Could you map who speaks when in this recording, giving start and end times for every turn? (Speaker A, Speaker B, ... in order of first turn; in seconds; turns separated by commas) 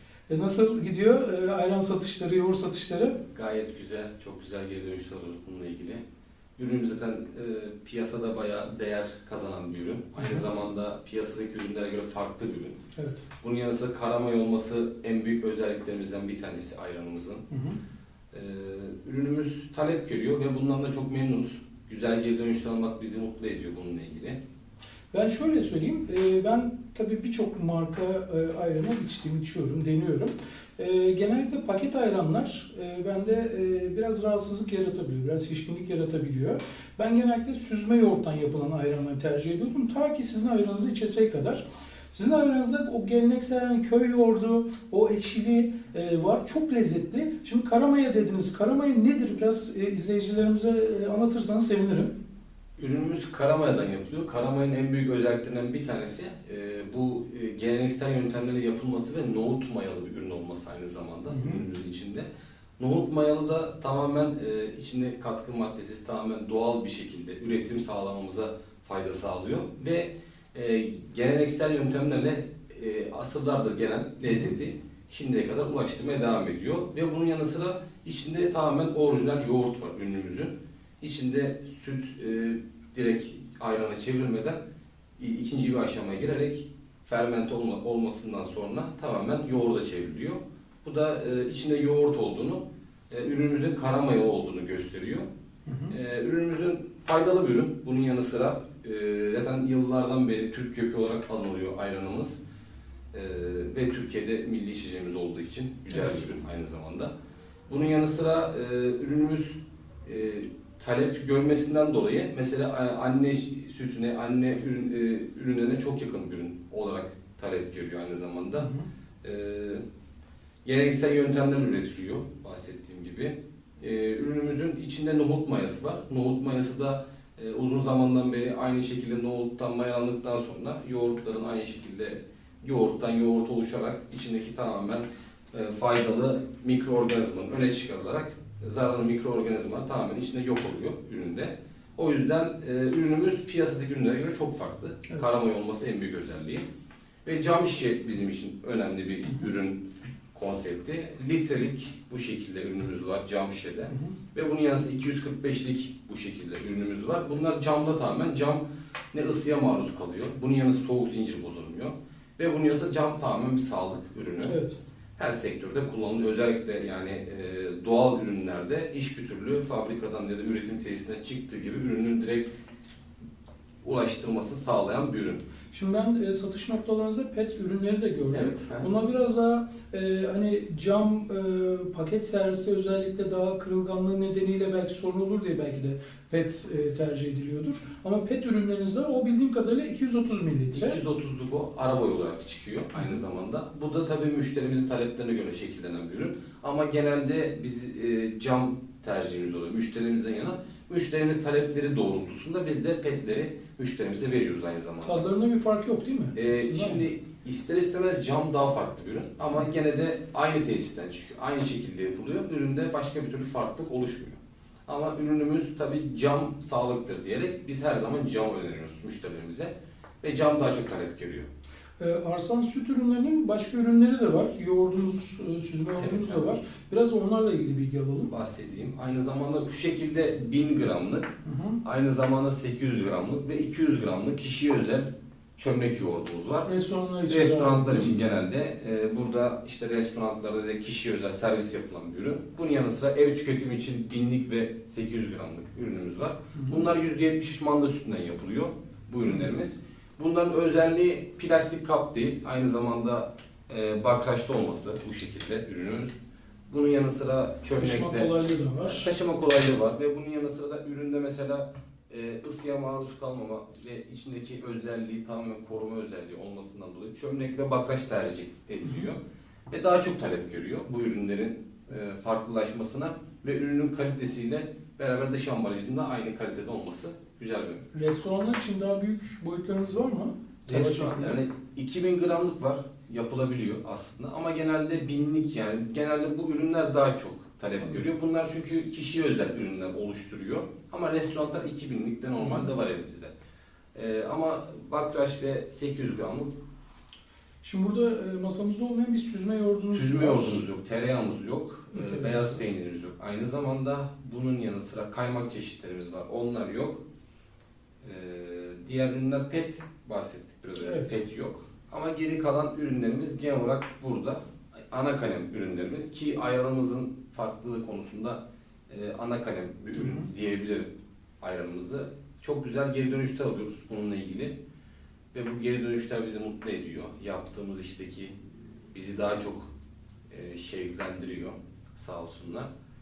Speaker A: 0.3-3.2, Speaker B: 3.3-6.0, Speaker B: 6.6-12.8, Speaker A: 10.2-10.4, Speaker A: 13.0-13.2, Speaker B: 13.4-17.4, Speaker A: 17.5-17.8, Speaker B: 18.3-24.4, Speaker A: 25.1-52.1, Speaker B: 52.8-84.6, Speaker A: 61.3-61.6, Speaker A: 74.3-74.5, Speaker B: 85.2-95.3, Speaker A: 95.7-95.9, Speaker B: 95.9-102.4, Speaker B: 103.1-107.1, Speaker B: 107.7-118.7, Speaker A: 118.5-118.9, Speaker B: 119.2-119.8, Speaker B: 120.7-146.7, Speaker B: 147.2-164.6, Speaker A: 153.9-154.1, Speaker A: 164.5-164.8, Speaker B: 165.2-172.5, Speaker B: 173.8-175.4, Speaker A: 175.7-191.0, Speaker B: 178.3-178.9, Speaker B: 190.7-205.2, Speaker A: 205.0-207.1, Speaker B: 206.3-221.5, Speaker A: 222.0-228.3, Speaker B: 226.0-226.6, Speaker B: 228.3-236.7, Speaker A: 231.4-231.8, Speaker A: 236.7-238.2, Speaker B: 237.3-256.1, Speaker A: 246.6-246.8, Speaker B: 256.7-258.3, Speaker A: 257.8-259.1, Speaker B: 258.9-277.9, Speaker A: 277.9-281.4, Speaker B: 280.7-293.3, Speaker A: 292.4-292.7, Speaker B: 293.9-296.5, Speaker A: 297.6-300.6, Speaker B: 299.9-307.0, Speaker A: 301.9-302.6, Speaker B: 308.0-320.9, Speaker A: 310.8-311.2, Speaker A: 320.0-320.3, Speaker B: 321.4-324.6, Speaker B: 325.3-328.3, Speaker B: 328.9-329.7, Speaker B: 330.3-332.7